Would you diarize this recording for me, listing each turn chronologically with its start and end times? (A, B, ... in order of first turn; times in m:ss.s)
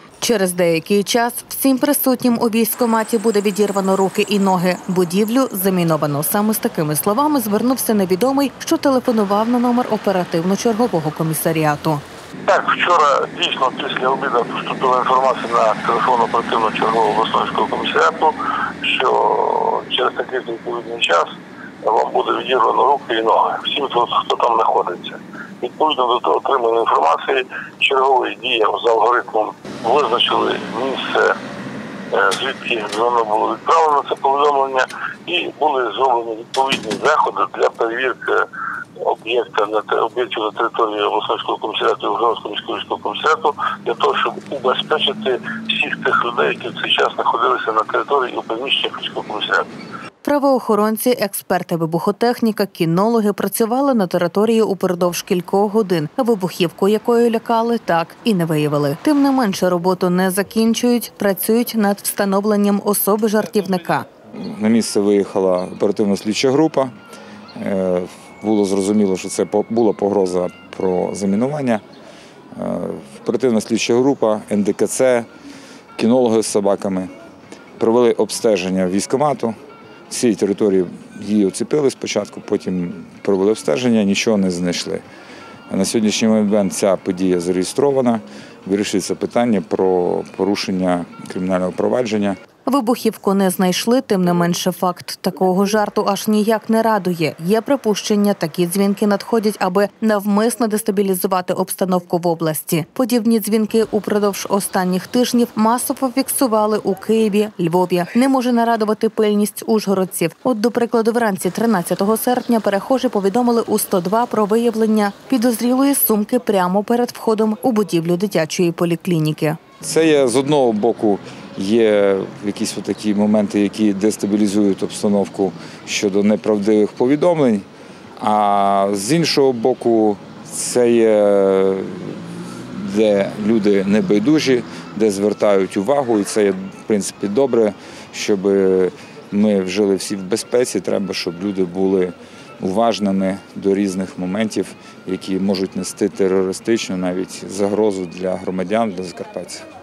0:00.2-0:12.0 A
0:12.5-0:31.3 B
0:32.1-0:38.4 B
0:39.0-0:49.7 B
0:50.2-1:04.1 A
1:04.3-1:06.9 C
1:07.6-1:11.8 C
1:12.5-1:15.3 C
1:16.0-1:17.1 C
1:17.8-1:19.6 C
1:20.1-1:25.0 C
1:25.7-1:32.4 C
1:32.7-1:59.6 A
1:59.8-2:07.7 C
2:08.2-2:29.7 C